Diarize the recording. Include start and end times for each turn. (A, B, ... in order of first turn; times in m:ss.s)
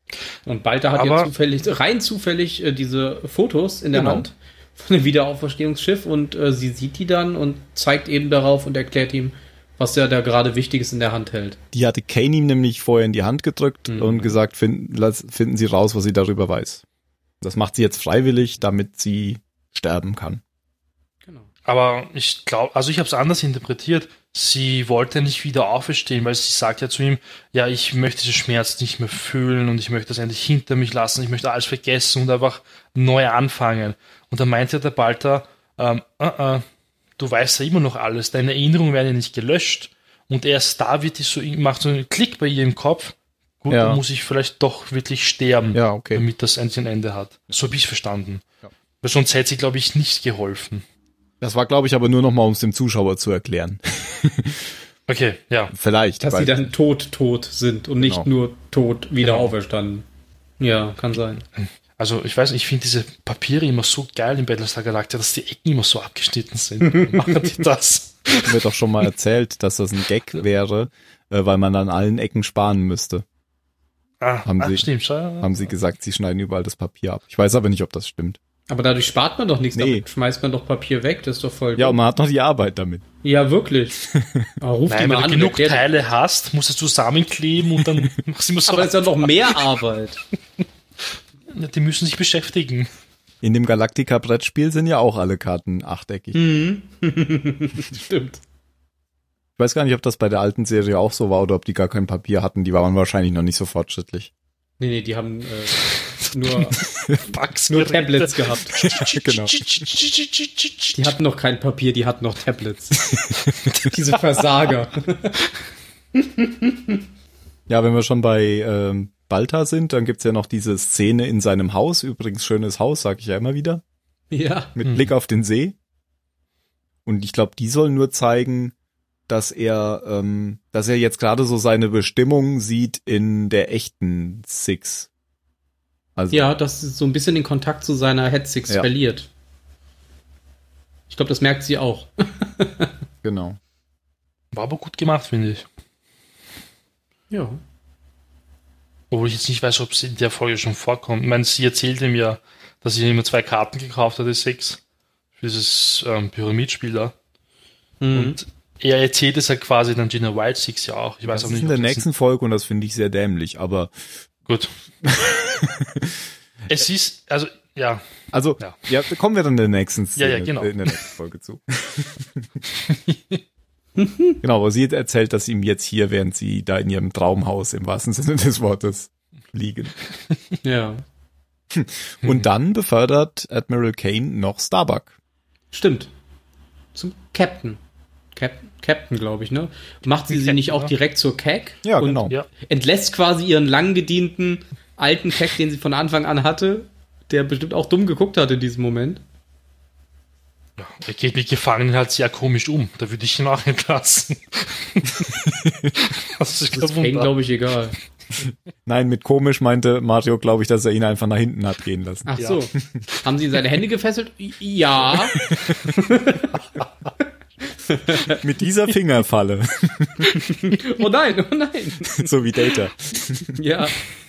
0:00.4-0:11.6 A
0:01.0-0:01.3 B
0:03.9-0:04.2 C
0:11.7-0:16.8 C
0:13.9-0:14.4 A
0:17.4-0:20.4 C
0:21.6-0:36.6 B
0:37.2-0:48.4 B
0:43.7-0:44.0 C
0:45.7-0:46.2 C
0:49.0-0:50.8 B
0:51.4-0:54.8 C
0:55.1-0:55.7 B
0:55.7-0:56.7 C
0:56.2-1:00.0 A
0:58.0-0:58.3 C
0:59.2-0:59.5 B
1:00.6-1:01.4 A
1:01.6-1:08.5 B
1:08.4-1:13.2 C
1:14.2-1:15.7 B
1:14.4-1:14.9 C
1:15.4-1:18.4 C
1:18.7-1:22.0 A
1:19.7-1:20.0 C
1:21.8-1:23.0 C
1:23.2-1:24.0 A
1:24.0-1:24.5 C
1:24.6-1:25.9 A
1:24.9-1:29.7 B
1:28.7-1:30.2 A
1:31.5-1:32.9 B
1:33.4-1:36.4 C
1:36.3-1:38.4 A
1:39.6-1:44.3 C
1:44.8-1:46.8 A
1:46.8-1:51.0 B
1:47.7-1:48.8 A
1:48.8-1:49.6 C
1:50.9-1:53.1 A
1:53.8-1:55.4 A
1:56.1-1:57.0 A
1:57.7-2:03.8 C
2:04.3-2:04.8 A
2:04.8-2:05.7 C
2:07.0-2:08.7 C
2:09.3-2:15.1 C
2:16.2-2:16.5 C
2:16.3-2:19.3 A
2:21.1-2:22.9 A
2:23.2-2:23.6 C
2:24.5-2:25.6 B
2:27.3-2:27.6 A
2:29.1-2:34.8 B
2:35.4-2:37.1 B
2:38.0-2:38.4 A
2:38.1-2:42.0 B
2:41.2-2:43.9 C
2:45.0-2:46.2 C
2:46.7-2:48.0 B
2:48.3-2:52.5 C
2:50.2-2:51.0 B
2:52.8-2:53.4 B
2:54.0-2:54.4 A
2:54.4-2:59.9 C
3:00.6-3:01.0 A
3:01.7-3:05.1 C
3:05.7-3:06.1 A
3:06.9-3:07.8 A
3:08.3-3:19.2 A
3:10.3-3:10.9 B
3:11.8-3:12.3 C
3:20.8-3:25.4 B
3:25.4-3:25.9 C
3:26.0-3:27.3 B
3:26.7-3:28.0 A
3:28.9-3:32.3 C
3:32.3-3:35.4 A
3:35.4-3:35.8 C
3:35.9-3:36.5 A
3:37.7-3:38.4 A
3:38.3-3:40.3 C
3:40.5-3:42.3 A
3:42.1-3:43.5 C
3:43.6-3:44.0 A